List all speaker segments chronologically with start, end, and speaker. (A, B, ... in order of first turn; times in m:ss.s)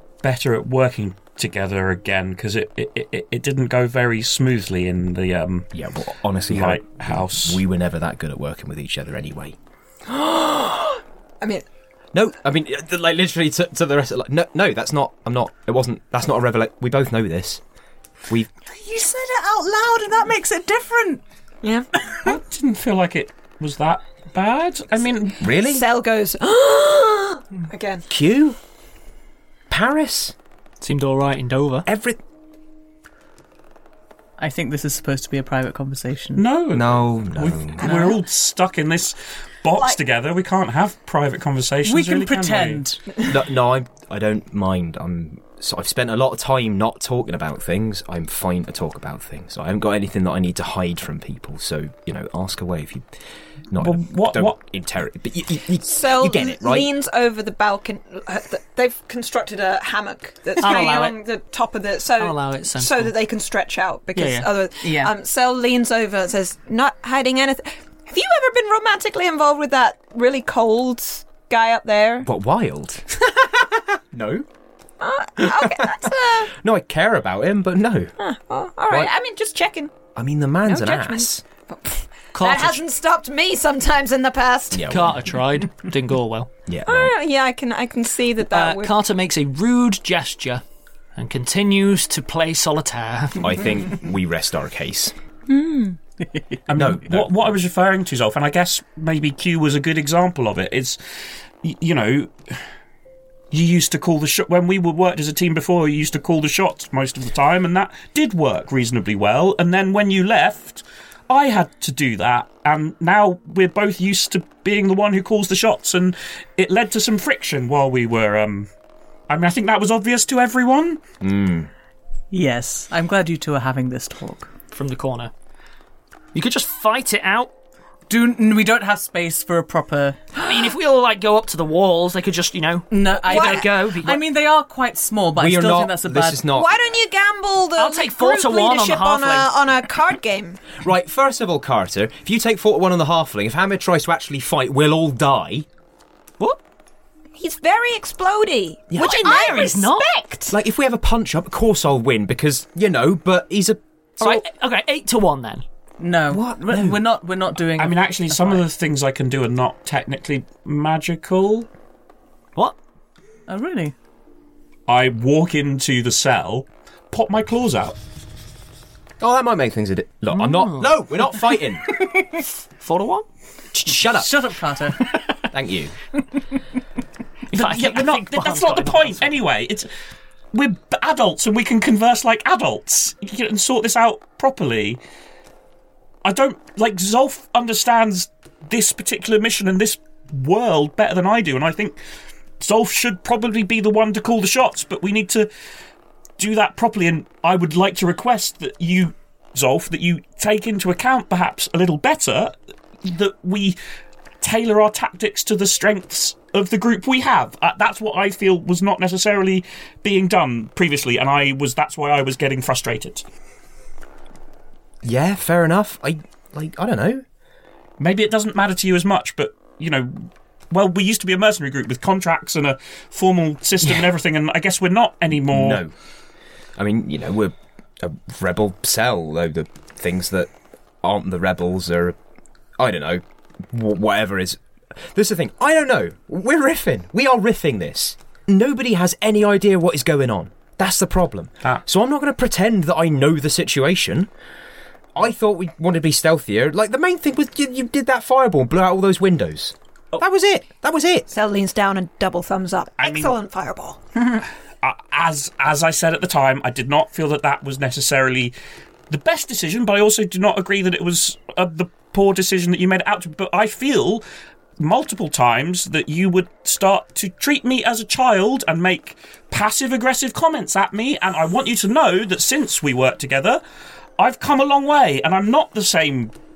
0:00.2-0:05.7 A
0:05.7-0:09.6 B
0:06.5-0:07.6 A
0:10.1-0:11.6 C
0:12.1-0:17.6 B
0:18.7-0:21.2 D
0:21.6-0:21.9 C
0:22.2-0:25.4 A
0:25.4-0:25.8 B
0:25.5-0:28.0 C
0:28.1-0:28.6 B
0:29.7-0:30.3 B
0:30.8-0:31.8 E
0:31.8-0:32.2 B
0:34.4-0:36.4 D
0:36.3-0:42.8 A
0:36.7-0:38.1 B
0:37.8-0:38.2 D
0:41.8-0:43.0 D
0:43.2-0:53.1 B
0:53.7-0:56.9 B
0:53.8-0:54.6 A
0:55.8-1:12.3 C
1:00.6-1:01.2 E
1:02.2-1:03.1 E
1:04.2-1:04.5 E
1:04.8-1:05.1 D
1:12.2-1:13.0 B
1:14.1-1:14.4 B
1:15.0-1:16.5 C
1:15.4-1:16.0 B
1:16.5-1:18.1 B
1:18.2-1:19.9 C
1:20.1-1:21.4 B
1:20.6-1:24.9 C
1:22.3-1:22.8 E
1:24.7-1:25.3 B
1:24.9-1:26.5 E
1:26.6-1:27.1 B
1:26.8-1:28.9 C
1:28.5-1:30.6 E
1:31.2-1:33.5 E
1:33.4-1:35.1 B
1:35.5-1:36.6 D
1:36.7-1:41.0 A
1:36.7-1:37.3 B
1:41.6-1:42.6 A
1:43.5-1:58.7 A
1:59.3-2:01.0 A
2:01.2-2:01.7 B
2:02.3-2:04.5 D
2:04.7-2:05.3 E
2:06.3-2:07.5 E
2:08.1-2:10.2 D
2:10.4-2:14.2 E
2:12.9-2:16.5 D
2:13.3-2:13.7 C
2:15.3-2:16.7 B
2:16.5-2:20.6 C
2:17.8-2:19.5 E
2:20.8-2:25.7 B
2:27.4-2:30.5 C
2:28.9-2:29.7 B
2:29.0-2:30.1 E
2:30.5-2:34.4 B
2:34.2-2:35.6 E
2:36.0-2:38.6 D
2:36.3-2:37.0 B
2:37.8-2:41.7 A
2:43.5-2:43.9 D
2:44.9-2:48.0 A
2:49.2-2:52.0 B
2:50.3-2:50.9 E
2:52.8-2:53.2 E
2:53.7-2:54.3 B
2:54.0-2:55.2 D
2:55.5-2:55.9 B
2:57.5-2:59.9 A
2:57.5-2:59.3 E
3:00.5-3:05.0 A
3:06.2-3:12.0 A
3:12.6-3:15.5 A
3:16.4-3:23.8 A
3:24.4-3:33.2 A
3:35.0-3:37.2 B
3:38.0-3:45.8 A
3:45.5-3:45.9 B
3:46.8-3:50.5 B
3:51.0-3:52.2 B
3:52.8-4:04.3 B
4:05.1-4:11.3 B
4:11.3-4:14.0 C
4:13.0-4:13.4 A
4:14.8-4:18.5 A
4:19.1-4:24.2 A
4:24.8-4:33.6 A
4:34.2-4:36.3 A